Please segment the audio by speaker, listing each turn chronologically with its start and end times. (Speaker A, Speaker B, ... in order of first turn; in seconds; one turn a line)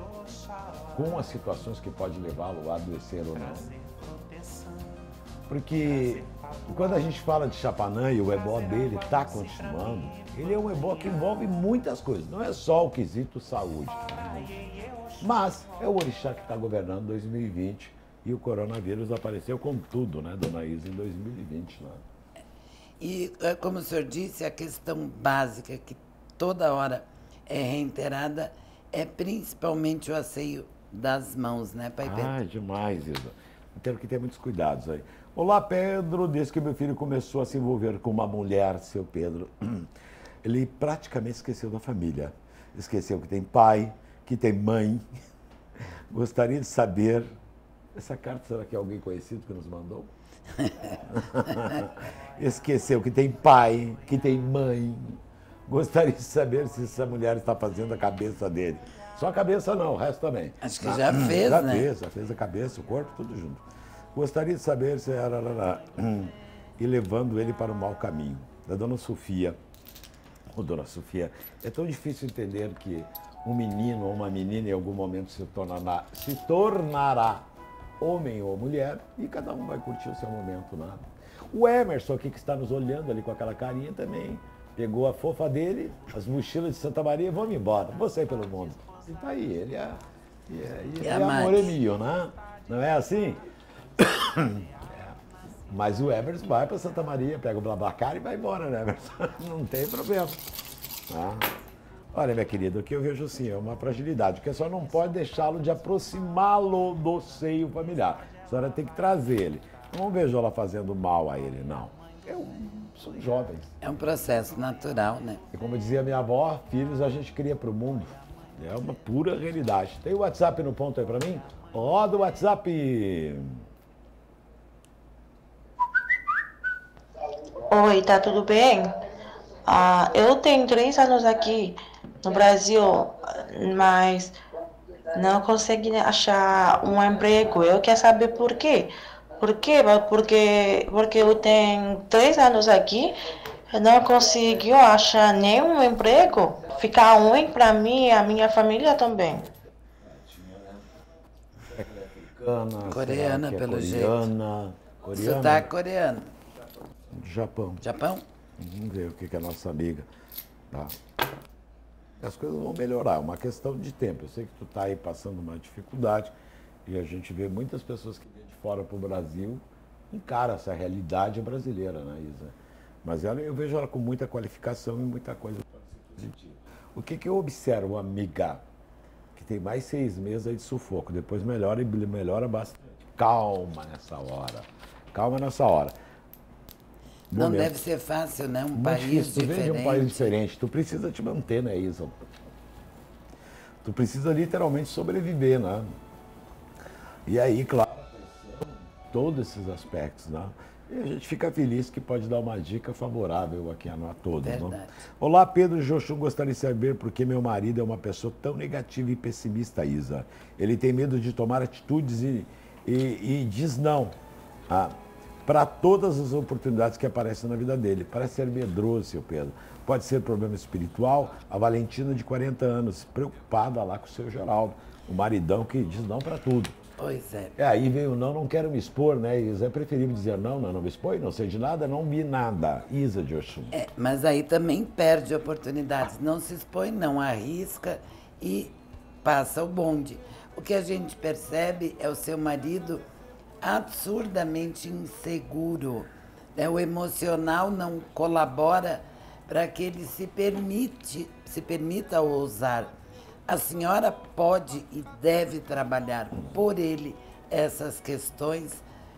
Speaker A: 0.9-3.7
Speaker A: 5.5-14.7
Speaker A: 15.2-22.0
Speaker B: 23.0-32.3
Speaker A: 32.0-39.9
Speaker A: 40.4-45.0
Speaker A: 46.1-47.3
Speaker A: 48.0-50.1
Speaker A: 50.9-63.6
Speaker B: 60.6-61.9
Speaker A: 64.1-69.6
Speaker A: 70.5-77.5
Speaker A: 78.0-93.4
Speaker B: 91.0-91.7
Speaker A: 94.0-95.2
Speaker A: 95.7-100.5
Speaker A: 101.1-101.5
Speaker A: 102.1-113.8
Speaker B: 113.8-115.4
Speaker A: 115.5-123.6
Speaker C: 127.7-129.0
Speaker C: 129.7-134.4
Speaker C: 135.1-143.2
Speaker C: 143.7-149.5
Speaker A: 150.0-150.8
Speaker A: 151.7-155.7
Speaker B: 152.9-154.3
Speaker B: 155.2-156.3
Speaker A: 157.1-157.8
Speaker B: 157.8-158.2
Speaker A: 158.6-160.1
Speaker A: 160.7-161.0
Speaker A: 162.2-166.3
Speaker A: 166.9-178.6
Speaker A: 179.3-185.9
Speaker A: 187.3-187.8
Speaker B: 187.3-190.3
Speaker A: 188.8-192.2
Speaker A: 193.8-195.9
Speaker A: 197.3-214.2
Speaker B: 204.4-205.0
Speaker A: 214.7-214.9
Speaker A: 215.4-226.8
Speaker B: 227.0-227.5
Speaker A: 227.6-233.7
Speaker B: 233.7-243.0
Speaker B: 243.6-252.9
Speaker B: 253.5-258.8